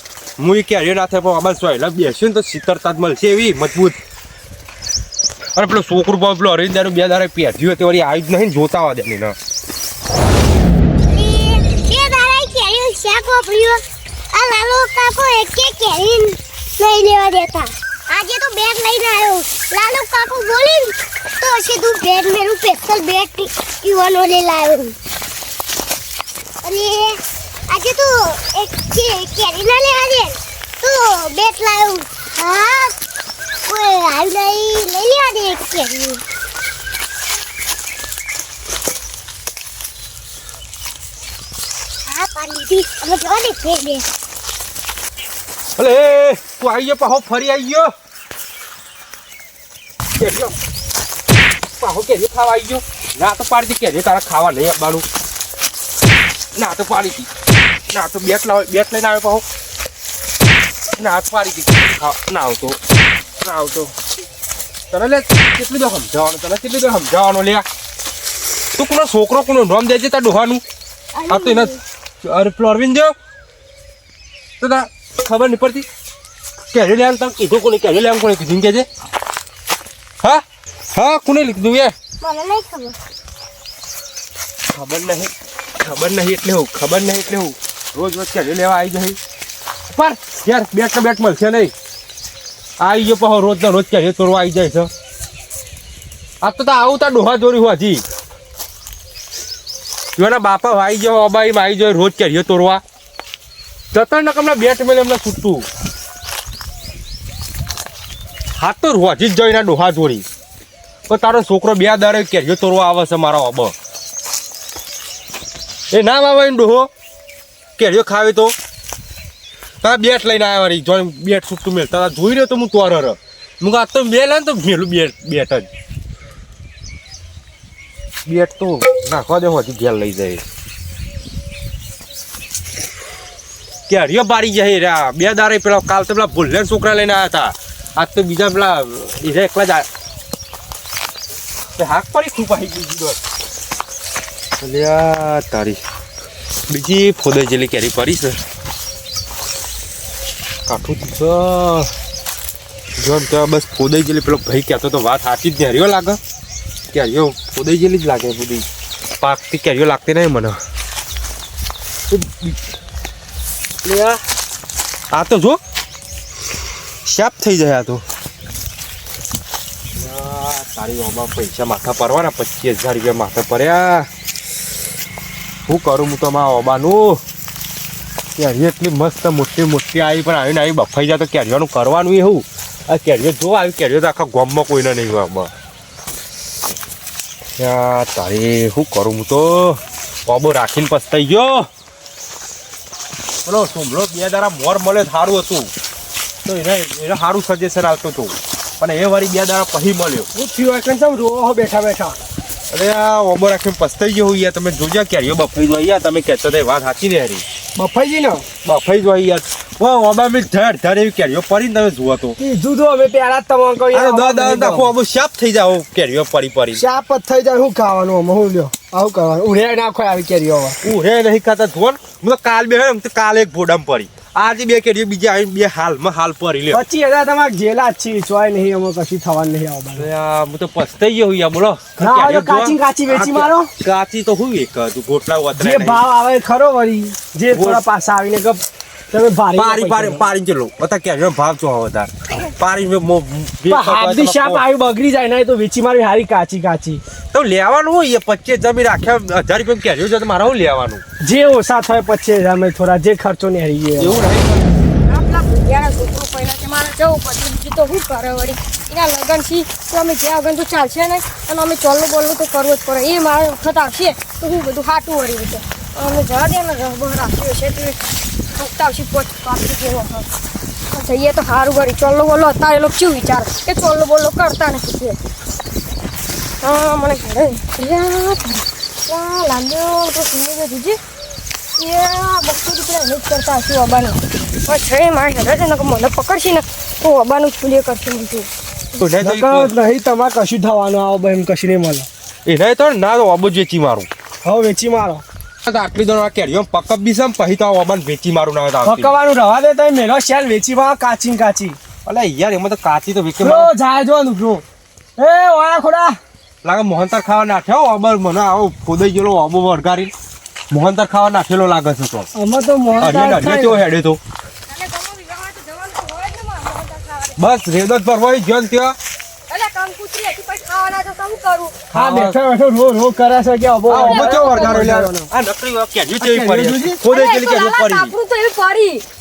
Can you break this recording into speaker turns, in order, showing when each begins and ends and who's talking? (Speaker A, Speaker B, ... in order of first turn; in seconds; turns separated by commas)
Speaker A: 0.4-4.0, Speaker A: 5.5-9.3, Speaker B: 11.1-13.8, Speaker B: 14.3-24.9, Speaker B: 26.6-32.9, Speaker B: 33.6-36.2, Speaker B: 42.0-44.0, Speaker A: 45.8-47.9, Speaker A: 50.2-50.5, Speaker A: 51.8-55.0, Speaker A: 56.5-57.3, Speaker A: 57.9-59.4, Speaker A: 60.9-62.8, Speaker A: 63.4-63.9, Speaker A: 64.9-67.7, Speaker A: 68.8-70.6, Speaker B: 71.1-71.8, Speaker A: 71.3-73.1, Speaker A: 74.6-75.9, Speaker A: 76.7-78.9, Speaker A: 80.2-81.9, Speaker B: 82.2-83.0, Speaker A: 84.7-89.2, Speaker A: 89.9-91.7, Speaker A: 92.8-94.9, Speaker A: 96.4-98.0, Speaker A: 100.2-102.8, Speaker A: 103.9-105.7, Speaker A: 108.5-110.2, Speaker A: 111.1-113.7, Speaker A: 115.9-116.9, Speaker A: 117.8-118.5, Speaker A: 119.8-125.7, Speaker A: 128.2-130.4, Speaker A: 133.9-139.9, Speaker A: 141.8-143.2, Speaker A: 144.6-145.8, Speaker A: 146.7-148.4, Speaker A: 150.7-151.9, Speaker A: 153.0-156.2, Speaker A: 156.9-158.7, Speaker A: 159.2-160.6, Speaker A: 162.1-162.5, Speaker C: 163.8-164.2, Speaker A: 165.1-165.6, Speaker A: 167.0-168.0, Speaker A: 169.9-174.1, Speaker A: 175.7-177.2, Speaker A: 178.3-185.5, Speaker A: 187.6-191.7, Speaker A: 193.4-195.7, Speaker A: 196.4-200.3, Speaker C: 200.3-202.2, Speaker A: 202.7-207.4, Speaker C: 207.7-208.4, Speaker A: 208.6-212.4, Speaker C: 212.4-214.9, Speaker A: 213.9-216.8, Speaker C: 216.7-220.8, Speaker A: 220.8-226.8, Speaker C: 226.7-230.1, Speaker A: 229.9-236.0, Speaker C: 232.0-233.7, Speaker C: 235.6-240.2, Speaker A: 237.5-237.8, Speaker A: 239.5-244.6, Speaker C: 243.7-247.0, Speaker A: 247.3-251.0, Speaker C: 251.2-254.2, Speaker A: 254.0-254.7, Speaker D: 255.1-268.0, Speaker D: 268.5-270.3, Speaker D: 270.9-275.2, Speaker D: 276.6-281.0, Speaker D: 281.8-288.5, Speaker A: 288.9-289.7, Speaker C: 289.2-292.1, Speaker A: 292.4-294.1, Speaker C: 294.4-295.2, Speaker A: 295.6-299.1, Speaker C: 298.8-301.8, Speaker A: 302.0-303.7, Speaker C: 303.4-304.6, Speaker C: 305.2-306.2, Speaker A: 306.6-310.1, Speaker A: 310.7-312.3, Speaker C: 312.3-313.8, Speaker A: 313.0-314.2, Speaker D: 314.7-317.4, Speaker A: 317.4-318.9, Speaker D: 319.5-321.7, Speaker A: 321.9-322.4, Speaker C: 321.9-325.3, Speaker D: 323.9-324.8, Speaker A: 323.9-328.2, Speaker C: 326.2-327.0, Speaker D: 327.0-329.0